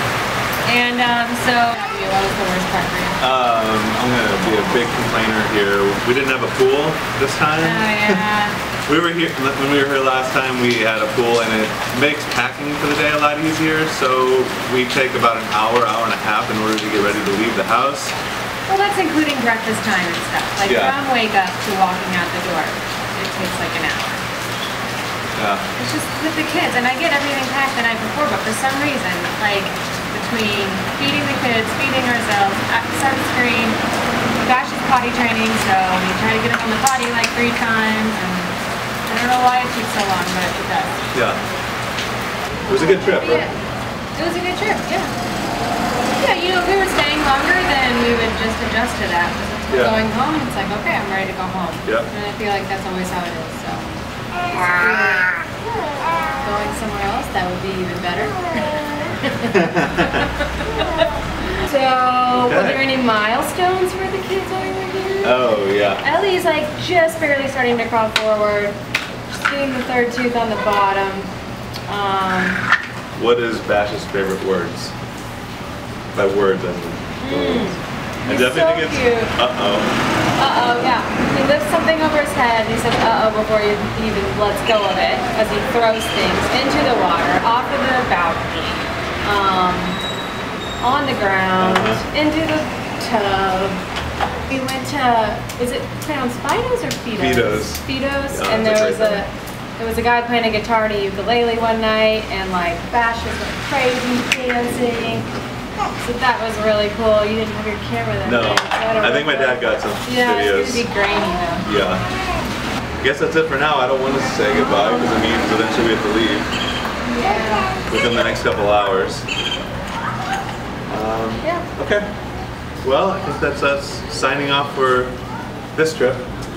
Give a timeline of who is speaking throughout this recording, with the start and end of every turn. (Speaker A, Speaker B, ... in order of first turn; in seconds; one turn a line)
Speaker A: 0.7-3.2
Speaker B: 3.2-8.2
Speaker A: 7.6-8.6
Speaker B: 8.9-18.1
Speaker A: 18.7-24.2
Speaker B: 20.6-21.0
Speaker B: 25.4-25.7
Speaker A: 25.8-33.8
Speaker A: 34.4-41.0
Speaker B: 41.1-41.4
Speaker B: 42.7-43.5
Speaker A: 43.1-43.5
Speaker A: 44.1-45.1
Speaker A: 46.2-55.5
Speaker B: 49.7-50.0
Speaker A: 56.4-65.4
Speaker B: 59.5-60.3
Speaker B: 62.3-62.8
Speaker B: 65.2-66.0
Speaker A: 66.0-68.8
Speaker A: 69.4-71.3
Speaker A: 71.9-72.7
Speaker B: 73.2-74.9
Speaker B: 76.1-79.9
Speaker A: 77.2-79.3
Speaker A: 80.4-90.0
Speaker A: 90.8-93.8
Speaker B: 91.6-92.0
Speaker A: 94.5-105.3
Speaker B: 97.2-99.2
Speaker A: 106.0-111.7
Speaker B: 108.2-110.8
Speaker B: 111.6-112.0
Speaker B: 113.0-116.5
Speaker A: 114.7-115.2
Speaker A: 117.1-117.8
Speaker B: 117.9-119.3
Speaker B: 120.9-122.1
Speaker B: 122.8-125.2
Speaker B: 125.7-126.3